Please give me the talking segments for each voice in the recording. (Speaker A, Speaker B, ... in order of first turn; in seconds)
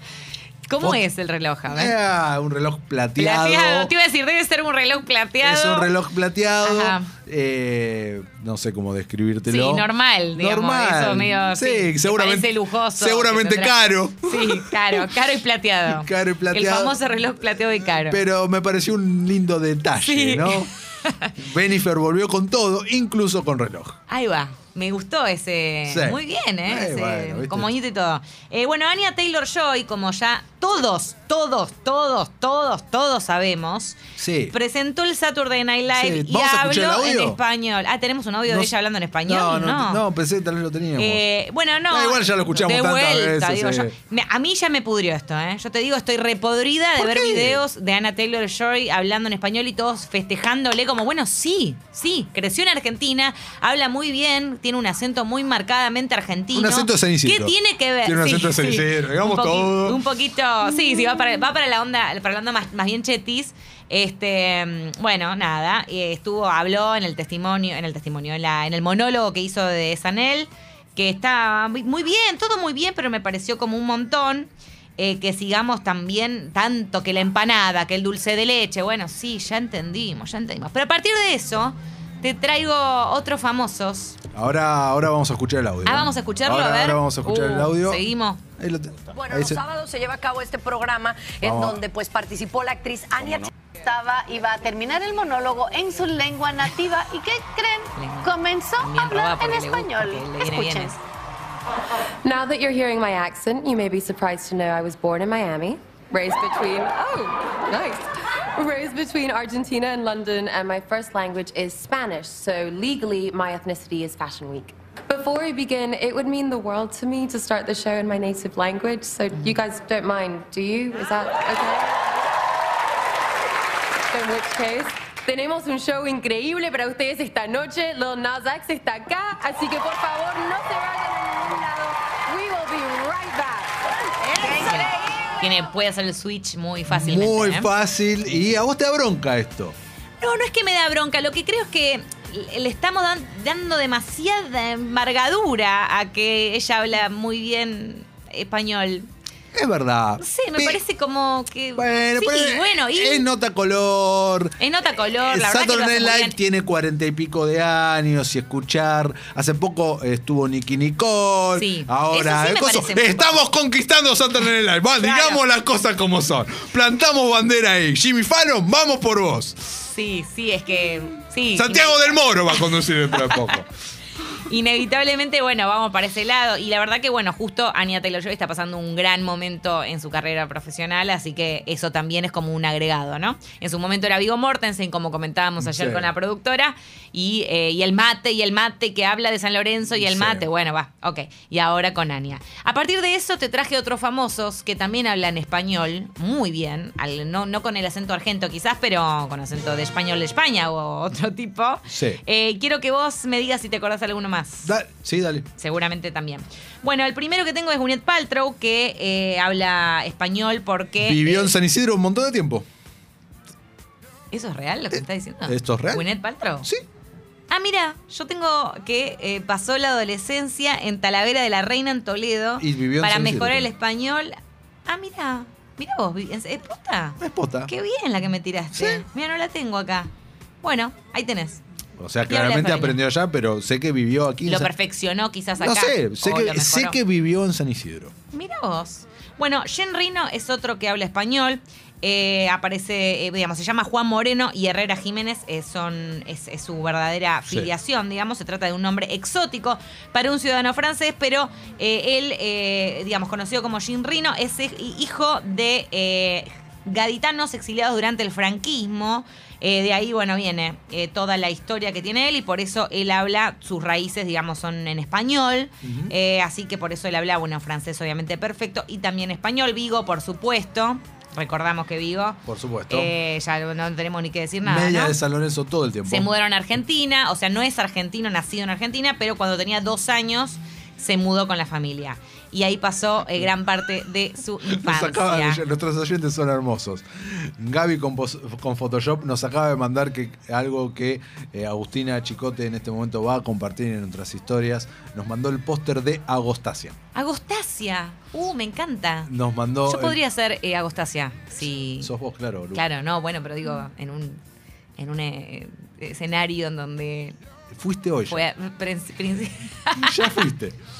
Speaker A: 0.6-1.9, 3.2-5.9, 6.6-7.1, 9.4-18.2, 19.9-21.3, 24.1-34.0, 34.5-40.0, 41.0-84.2, 85.8-88.4, 98.0-101.0, 134.3-137.7, 140.2-149.1, 150.2-153.2, 154.6-156.3, 161.6-163.4, 165.0-165.4, 169.8-173.5, 174.4-204.7, 205.6-211.5, 214.3-216.7, 217.5-224.3, 224.8-231.6, 232.2-233.0, 234.4-237.0, 238.3-275.2, 276.1-285.6, 297.1-302.1, 302.7-304.4, 305.0-307.4, 308.3-310.5
Speaker B: 1.7-3.9, 5.4-15.1, 15.9-17.0, 17.8-20.7, 21.4-24.0, 25.9-27.7, 34.2-34.5, 35.9-37.4, 38.5-38.7, 39.2-41.2, 41.9-44.0, 47.0-47.6, 56.5-60.0, 84.3-88.0, 88.6-89.6, 91.4-91.9, 136.9-139.7, 149.5-150.8, 151.8-154.5, 155.1-169.7, 171.5-173.7, 185.6-186.1, 189.9-190.5, 201.9-202.2, 204.6-205.5, 211.0-212.6, 214.9-216.1, 222.6-223.7, 227.2-227.7, 228.7-229.0, 232.0-234.7, 235.6-238.1, 265.8-266.1, 272.4-273.1, 274.6-276.3, 284.7-296.9, 299.2-300.2, 302.0-302.8, 307.7-308.4, 309.9-310.8
Speaker C: 89.2-93.5
Speaker D: 93.8-101.0
Speaker E: 102.2-122.2, 124.1-134.6